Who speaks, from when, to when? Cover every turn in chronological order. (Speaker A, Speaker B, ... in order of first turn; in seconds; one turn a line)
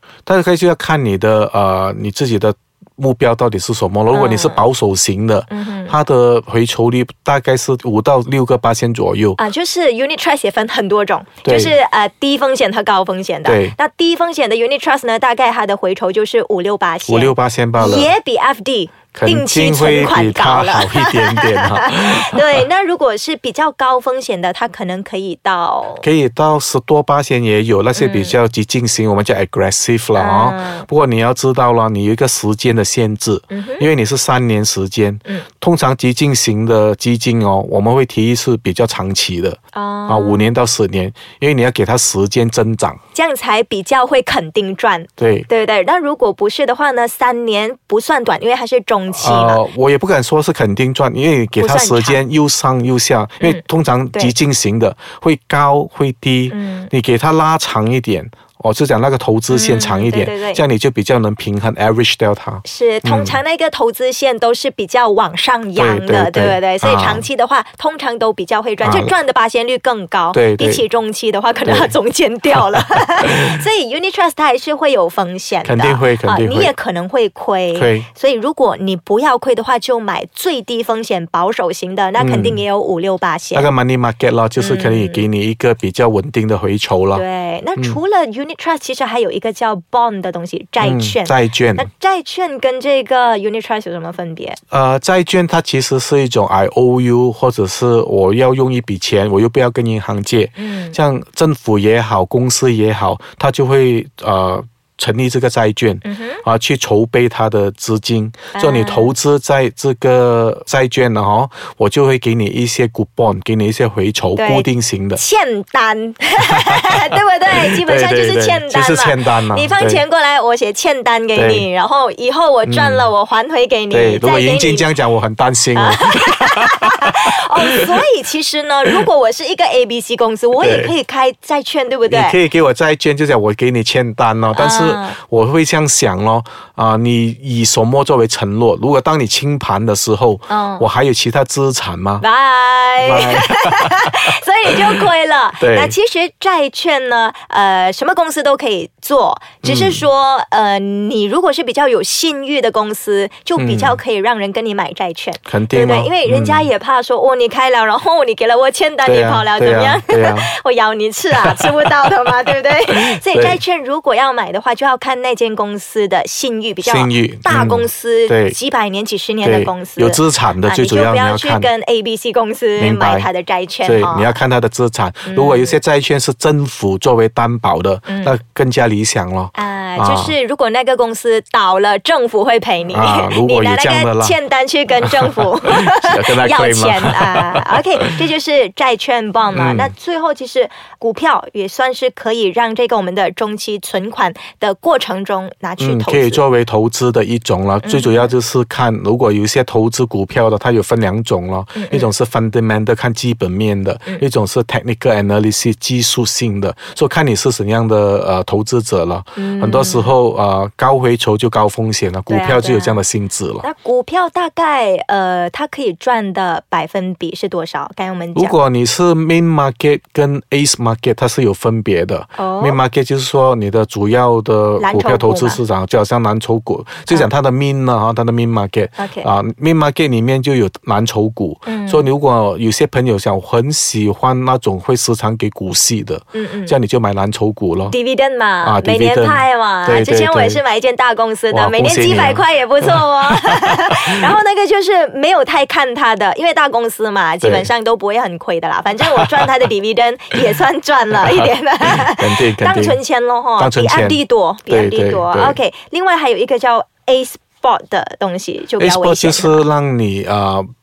Speaker A: 0.2-9.4
Speaker B: 4.1-4.7
Speaker B: 5.5-6.0
Speaker B: 9.4-26.1
Speaker A: 11.4-11.7
Speaker A: 13.4-13.7
Speaker A: 17.1-18.1
Speaker A: 19.1-22.6
Speaker A: 26.0-43.0
Speaker B: 27.9-28.4
Speaker B: 30.1-30.9
Speaker B: 33.5-33.9
Speaker B: 39.7-40.5
Speaker B: 43.1-49.6
Speaker A: 45.2-45.5
Speaker A: 49.1-63.4
Speaker B: 51.6-52.2
Speaker B: 56.5-56.9
Speaker B: 59.5-60.6
Speaker B: 62.6-83.7
Speaker A: 65.8-67.2
Speaker A: 68.8-69.1
Speaker A: 70.3-70.8
Speaker A: 71.6-71.9
Speaker A: 75.6-76.7
Speaker A: 77.7-78.1
Speaker A: 82.2-82.6
Speaker A: 83.5-87.2
Speaker B: 84.6-85.2
Speaker B: 87.1-94.6
Speaker A: 90.8-91.9
Speaker A: 94.7-115.2
Speaker B: 100.6-101.0
Speaker B: 106.0-106.4
Speaker B: 108.5-109.1
Speaker B: 114.3-124.9
Speaker A: 116.6-117.0
Speaker A: 117.6-120.0
Speaker A: 121.3-121.7
Speaker A: 122.6-123.1
Speaker A: 123.9-127.3
Speaker B: 125.7-132.4
Speaker A: 130.6-130.9
Speaker A: 132.1-142.2
Speaker B: 134.5-135.2
Speaker B: 140.5-140.8
Speaker B: 142.2-174.3
Speaker A: 143.0-144.2
Speaker A: 145.6-145.9
Speaker A: 149.6-150.0
Speaker A: 153.6-154.0
Speaker A: 155.4-156.7
Speaker A: 159.0-160.5
Speaker A: 162.9-163.6
Speaker A: 166.8-168.6
Speaker A: 169.4-171.7
Speaker A: 172.8-173.3
Speaker A: 173.8-180.3
Speaker B: 175.3-175.8
Speaker B: 178.1-178.3
Speaker B: 179.5-196.4
Speaker A: 182.9-184.3
Speaker A: 185.8-187.6
Speaker A: 189.5-189.9
Speaker A: 195.8-213.6
Speaker B: 197.8-198.3
Speaker B: 201.8-202.1
Speaker B: 209.4-210.1
Speaker B: 212.3-213.0
Speaker B: 213.6-218.6
Speaker A: 218.3-237.9
Speaker B: 222.4-222.8
Speaker B: 224.8-225.6
Speaker B: 229.0-229.3
Speaker B: 231.7-232.1
Speaker B: 236.3-236.7
Speaker B: 237.9-259.6
Speaker A: 238.6-240.6
Speaker A: 241.5-243.7
Speaker A: 251.9-253.0
Speaker A: 253.6-255.6
Speaker A: 258.8-260.6